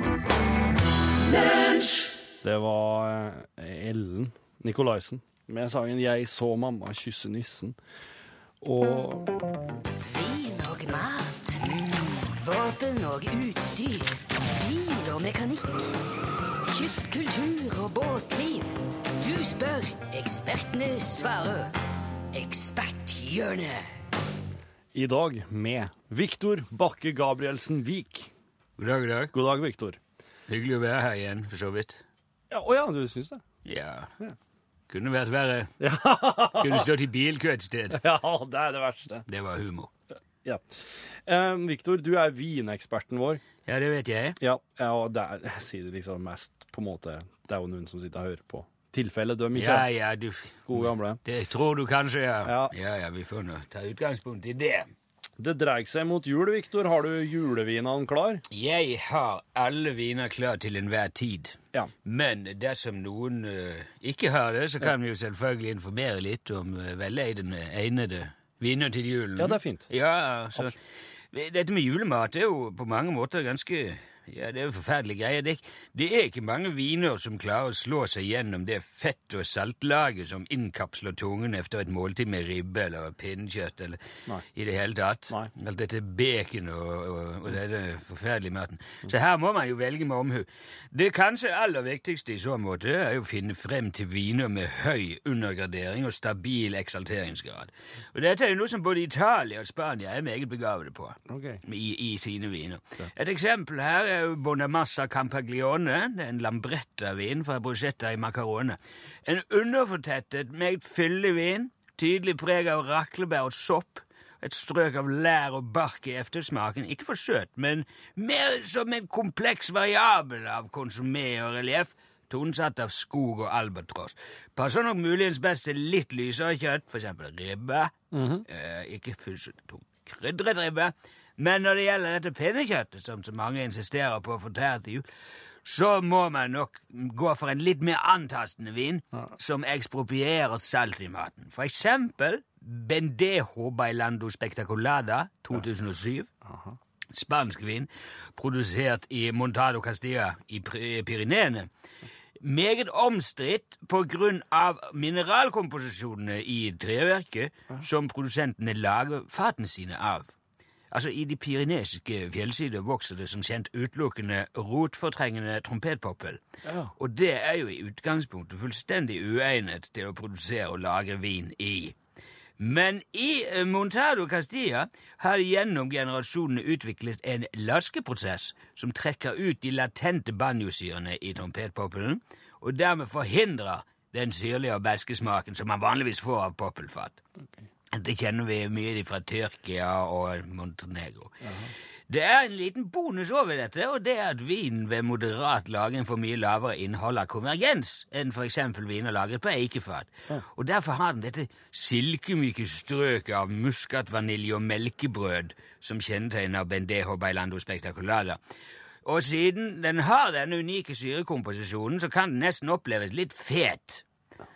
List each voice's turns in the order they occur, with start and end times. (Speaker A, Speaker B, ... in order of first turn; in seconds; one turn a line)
Speaker A: 2.4-7.8
Speaker A: 8.6-9.3
Speaker B: 10.1-15.8
Speaker B: 16.7-21.7
Speaker B: 22.3-23.8
Speaker A: 24.9-28.3
Speaker C: 28.8-29.3
Speaker A: 29.3-30.0
Speaker C: 30.5-32.0
Speaker A: 32.5-33.4
Speaker C: 33.6-34.1
Speaker C: 34.9-35.7
Speaker A: 35.8-36.9
Speaker C: 36.6-38.0
Speaker A: 37.9-39.2
Speaker C: 39.3-39.9
Speaker A: 40.4-43.4
Speaker C: 43.6-44.4
Speaker A: 44.4-49.9
Speaker C: 49.5-54.9
Speaker A: 50.7-51.2
Speaker A: 52.4-52.7
Speaker A: 55.4-58.4
Speaker C: 58.5-70.7
Speaker A: 69.4-69.9
Speaker C: 71.3-84.0
Speaker C: 84.5-127.9
Speaker A: 101.3-101.6
Speaker A: 128.1-128.4
Speaker C: 128.5-135.0
Speaker C: 135.6-146.3
Speaker A: 146.4-146.8
Speaker C: 147.1-151.7
Speaker C: 152.4-160.3
Speaker C: 160.9-166.4
Speaker A: 166.6-166.9
Speaker C: 167.0-172.0
Speaker C: 172.6-187.2
Speaker C: 187.9-191.4
Speaker A: 191.4-191.7
Speaker C: 192.1-208.4
Speaker C: 209.0-214.0